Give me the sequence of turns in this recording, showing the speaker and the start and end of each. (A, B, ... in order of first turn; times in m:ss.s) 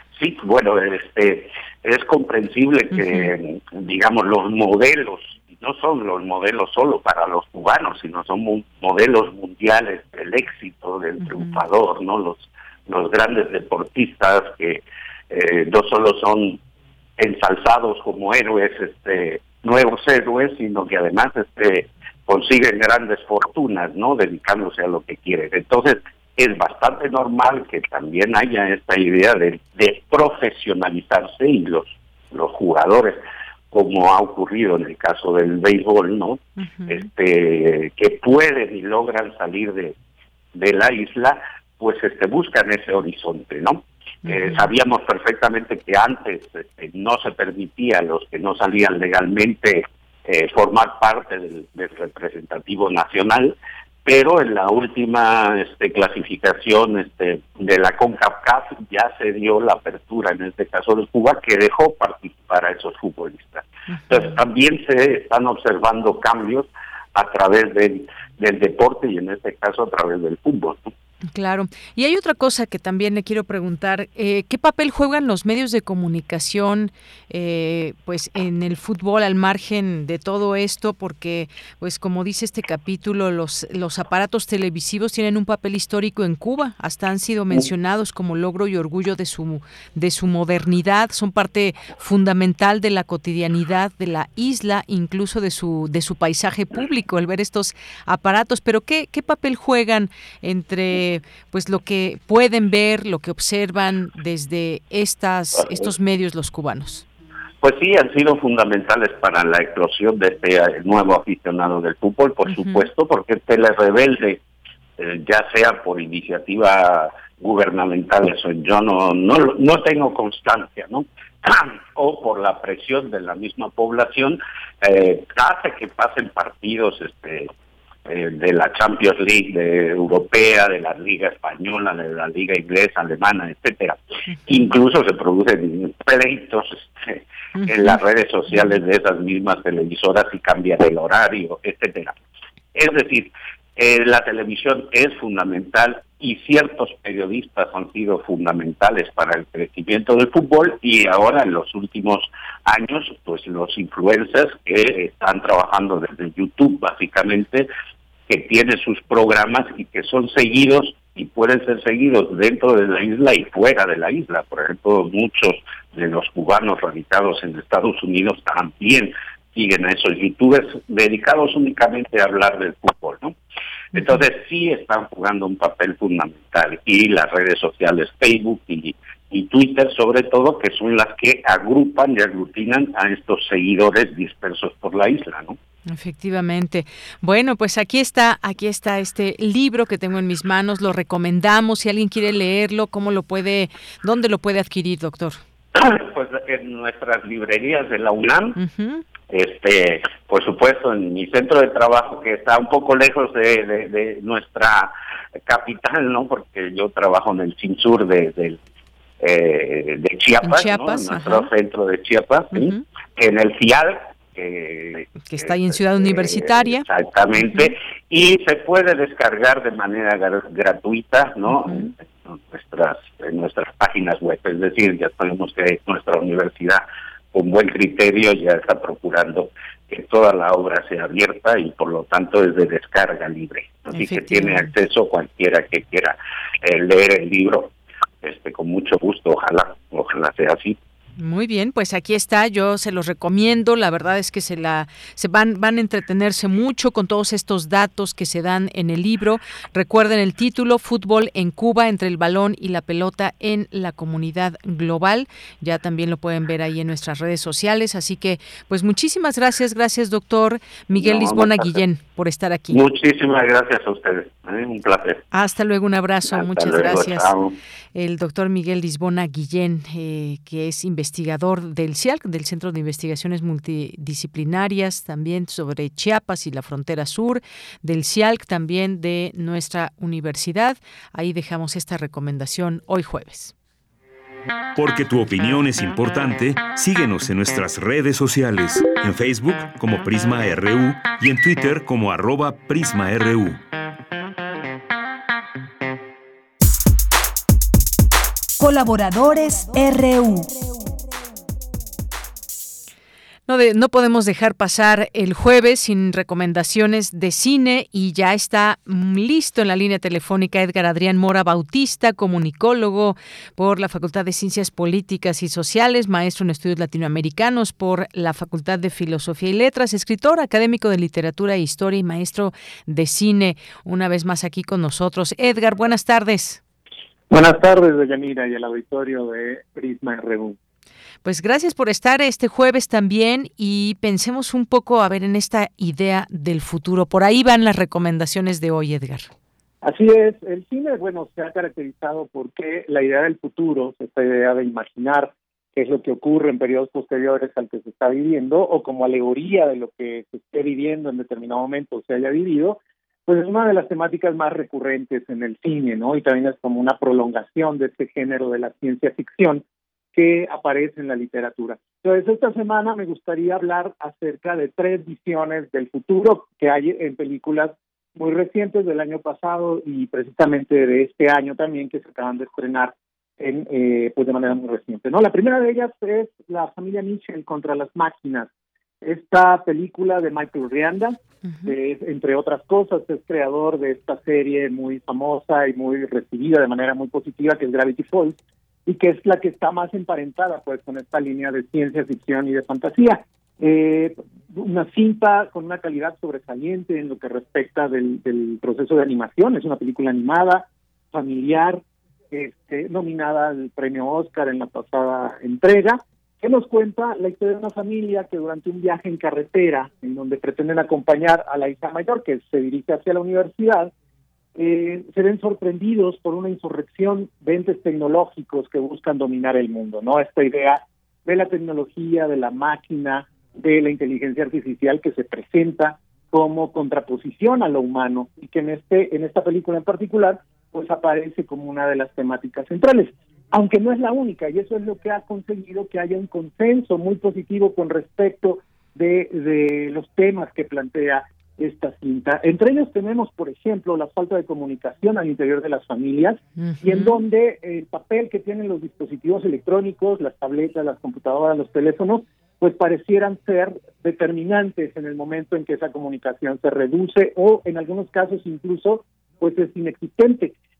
0:00.2-0:16.6 A
0:11.3-0:11.6 B
0:17.2-0:33.2 A
0:33.7-0:39.9 A
0:36.6-0:37.0 B
0:40.6-0:53.6 A
0:44.3-0:44.6 B
0:54.1-1:10.9 A
1:11.3-1:47.0 B
1:45.6-1:45.8 A
1:47.6-1:54.4 A
1:52.5-1:52.9 B
1:55.0-2:07.5 A
2:08.1-2:22.2 A
2:17.6-2:17.9 B
2:22.7-2:37.7 A
2:38.3-2:53.4 A
2:53.9-3:05.6 A
3:05.9-3:15.4 B
3:15.7-3:18.6 A
3:18.6-3:19.0 B
3:19.3-3:24.9 A
3:25.5-3:28.6 A
3:29.2-3:57.7 A
3:30.4-3:31.5 B
3:32.5-3:32.8 B
3:35.2-3:36.8 B
3:37.4-3:37.7 B
3:41.6-3:41.9 B
3:53.9-3:54.7 B
3:58.2-4:00.8 A
4:01.2-4:22.8 B
4:20.9-4:21.8 A
4:22.7-4:25.2 A
4:25.3-4:27.3 B
4:26.3-4:27.5 A
4:27.9-4:43.5 B
4:44.7-4:53.6 C
4:58.6-5:00.6 D
5:03.5-5:26.6 B
5:27.3-5:30.6 E
5:31.2-5:39.3 B
5:39.8-5:59.6 E
6:00.1-6:18.5 E
6:19.0-6:53.9 E
6:21.4-6:21.7 B
6:54.6-7:40.6 E
7:26.6-7:27.2 B